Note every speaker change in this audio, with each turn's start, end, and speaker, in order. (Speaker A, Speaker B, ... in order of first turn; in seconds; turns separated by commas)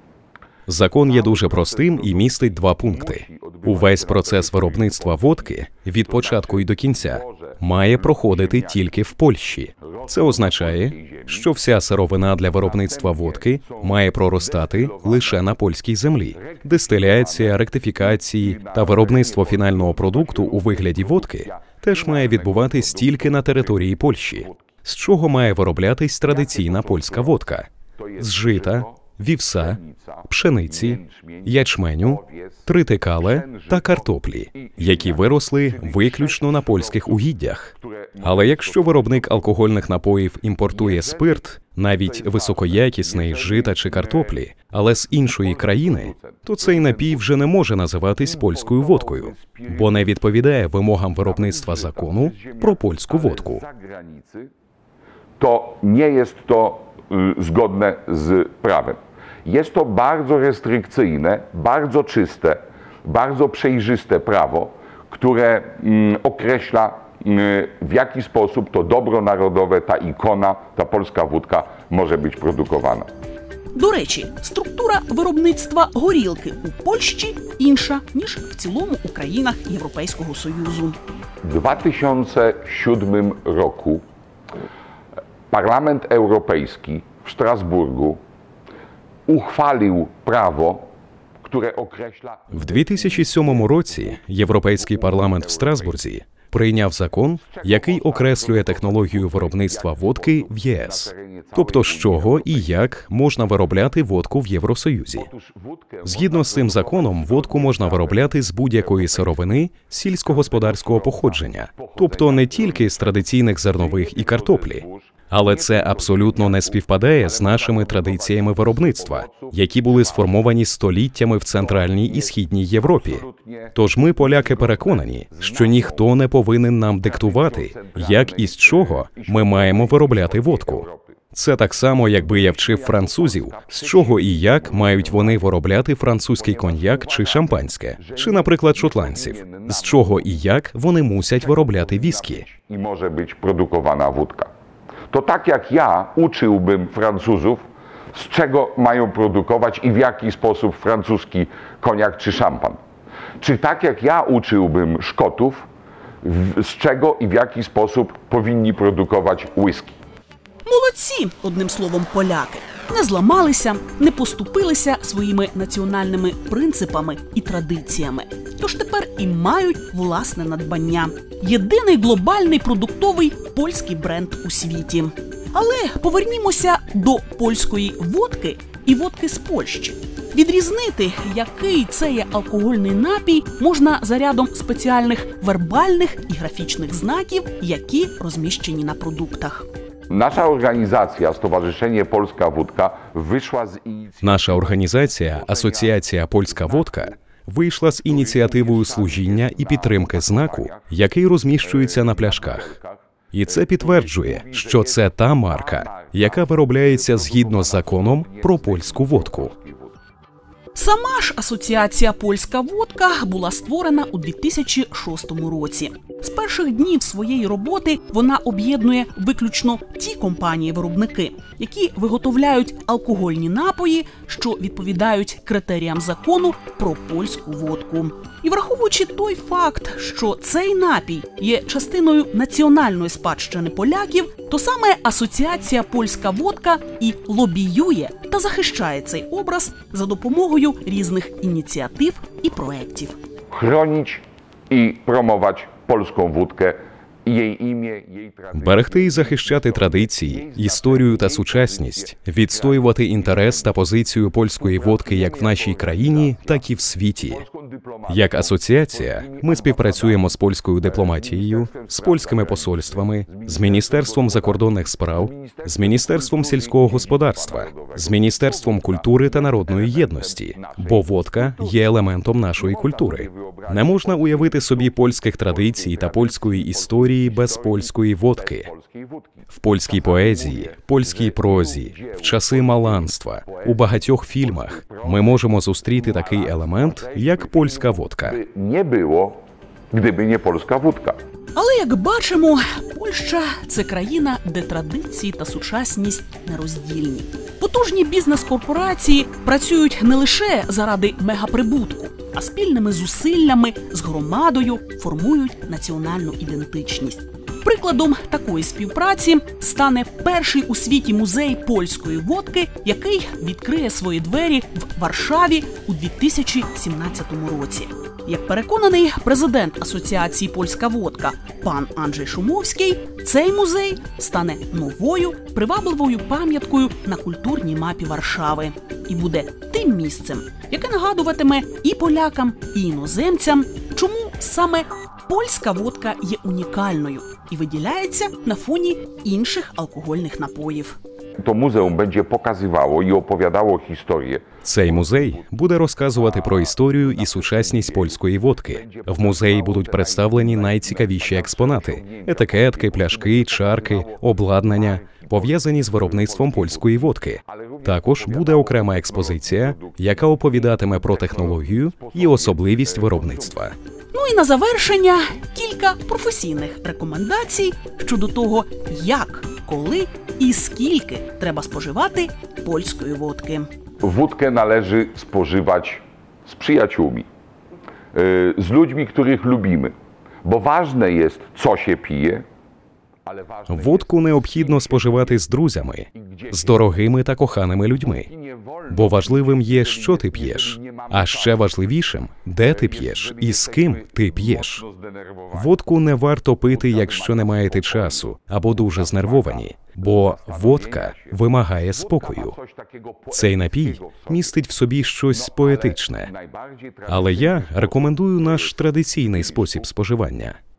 Speaker A: 0.7-53.6, Speaker B: 1.1-8.9, Speaker B: 9.8-11.5, Speaker B: 12.5-15.5, Speaker B: 16.3-24.7, Speaker B: 26.2-27.4, Speaker B: 28.0-29.1, Speaker B: 29.6-32.7, Speaker B: 33.2-39.6, Speaker B: 40.7-41.4, Speaker B: 42.0-44.4, Speaker B: 45.2-47.3, Speaker B: 48.2-50.2, Speaker B: 51.2-54.5, Speaker B: 55.4-73.1, Speaker C: 73.7-81.0, Speaker B: 81.4-84.0, Speaker B: 85.5-88.2, Speaker B: 89.3-90.9, Speaker B: 91.4-94.0, Speaker A: 92.5-105.3, Speaker B: 94.8-95.9, Speaker B: 97.4-102.8, Speaker B: 105.1-109.5, Speaker A: 106.0-123.2, Speaker B: 110.2-113.2, Speaker B: 113.7-120.4, Speaker B: 121.6-126.1, Speaker A: 123.7-142.4, Speaker B: 127.0-131.2, Speaker B: 132.2-135.5, Speaker B: 136.4-140.3, Speaker B: 141.3-144.5, Speaker B: 145.1-152.8, Speaker B: 153.4-155.7, Speaker B: 156.2-159.9, Speaker C: 160.7-189.7, Speaker B: 190.1-197.1, Speaker A: 194.2-202.7, Speaker B: 198.1-200.9, Speaker B: 201.6-209.9, Speaker A: 203.3-209.5, Speaker C: 210.8-243.2, Speaker B: 243.5-253.8, Speaker A: 248.5-257.4, Speaker B: 254.6-256.7, Speaker B: 257.2-260.3, Speaker A: 258.1-278.7, Speaker B: 260.8-271.8, Speaker B: 272.6-291.2, Speaker A: 279.5-288.4, Speaker C: 291.5-341.0, Speaker B: 341.4-345.4, Speaker A: 344.6-363.8, Speaker B: 346.1-363.6, Speaker C: 364.1-373.7, Speaker B: 374.0-377.3, Speaker B: 378.1-379.9, Speaker B: 380.4-382.4, Speaker B: 383.3-385.4, Speaker A: 383.7-388.3, Speaker B: 386.2-386.8, Speaker B: 388.2-391.7, Speaker A: 388.9-394.8, Speaker B: 392.7-395.7, Speaker A: 395.5-402.5, Speaker B: 396.7-404.6, Speaker A: 403.3-406.3, Speaker B: 405.3-409.9, Speaker A: 407.1-410.6